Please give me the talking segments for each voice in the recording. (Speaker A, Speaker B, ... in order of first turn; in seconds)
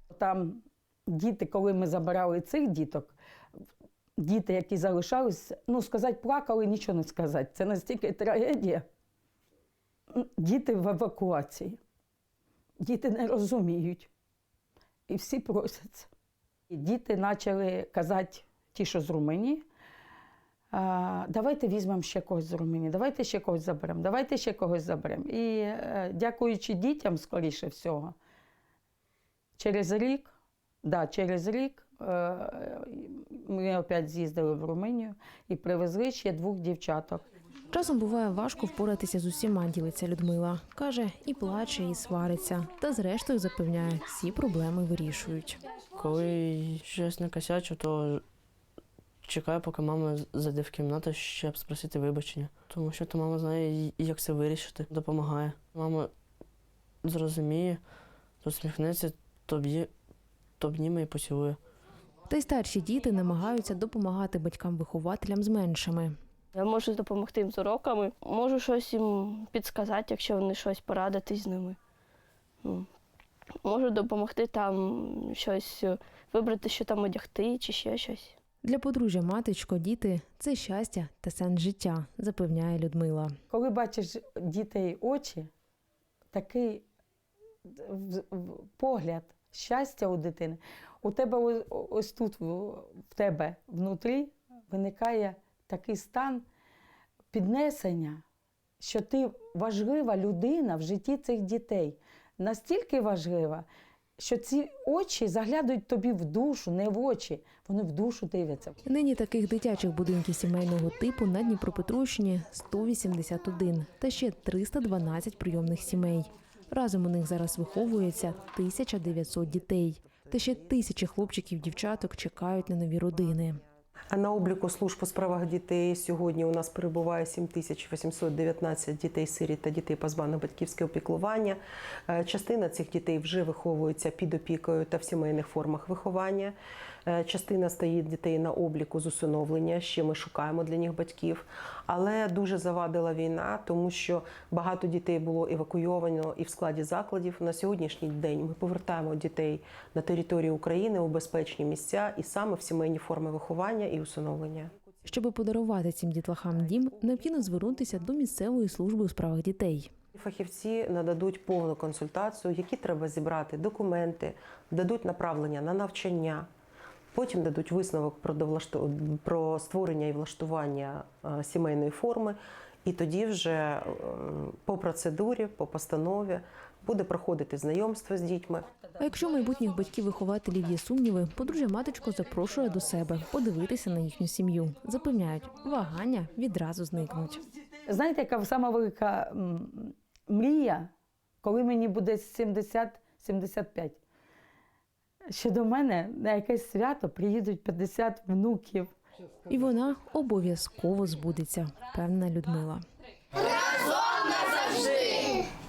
Speaker A: 0.1-3.1, 4.2-8.9, 10.1-11.8, 12.8-14.1, 15.1-16.1, 16.7-19.6, 20.7-28.1, 29.6-30.3, 30.8-37.2, 83.5-85.5, 86.3-86.8, 87.8-96.4, 97.3-98.2, 98.8-103.6, 104.2-108.8, 187.9-190.9, 191.4-194.0, 195.3-198.9
Speaker B: 37.7-45.6, 62.3-66.1, 78.6-83.3, 108.8-123.6, 155.0-159.9, 179.0-187.4, 199.5-202.8
Speaker C: 46.0-48.2, 49.2-56.1, 57.0-57.9, 58.4-59.9, 60.6-61.6
Speaker D: 66.5-71.8, 72.6-72.9, 73.6-78.4
Speaker E: 124.1-131.6, 132.1-136.5, 137.1-154.7, 160.2-166.5, 167.1-178.7